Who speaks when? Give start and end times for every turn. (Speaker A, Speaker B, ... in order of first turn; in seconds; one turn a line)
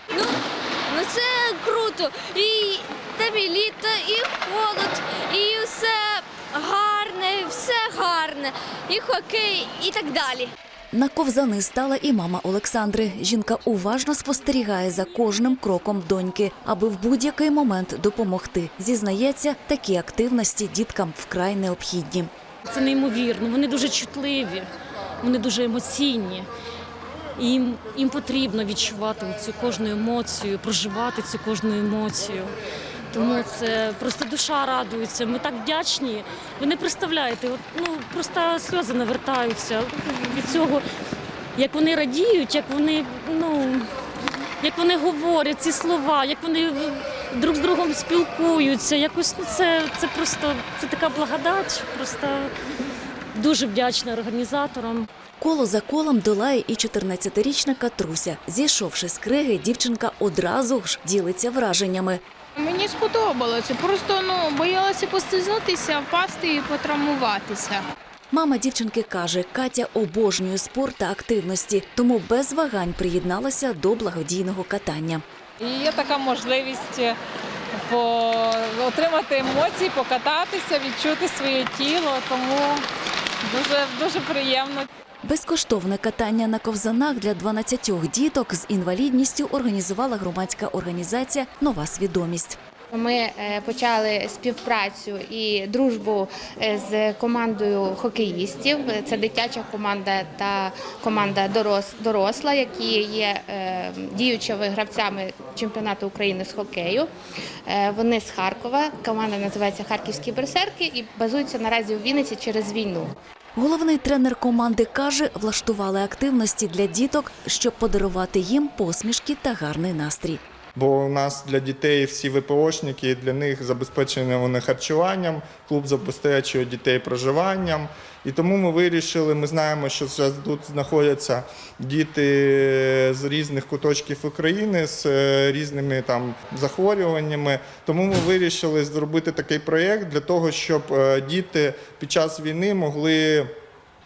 Speaker A: 0.9-10.5
Speaker B: 10.9-22.3
Speaker C: 22.7-24.7
Speaker C: 25.2-26.5
Speaker C: 27.4-32.5
Speaker C: 33.1-40.8
Speaker C: 41.6-43.9
Speaker C: 44.6-52.5
Speaker C: 53.3-55.1
Speaker B: 55.4-62.2
Speaker D: 62.6-67.9
Speaker B: 68.3-75.2
Speaker E: 75.6-77.2
Speaker E: 77.8-82.8
Speaker E: 83.4-84.9
Speaker B: 85.2-92.6
Speaker F: 92.9-107.1
Speaker F: 107.7-113.1
Speaker B: 113.6-120.4
Speaker G: 120.8-143.5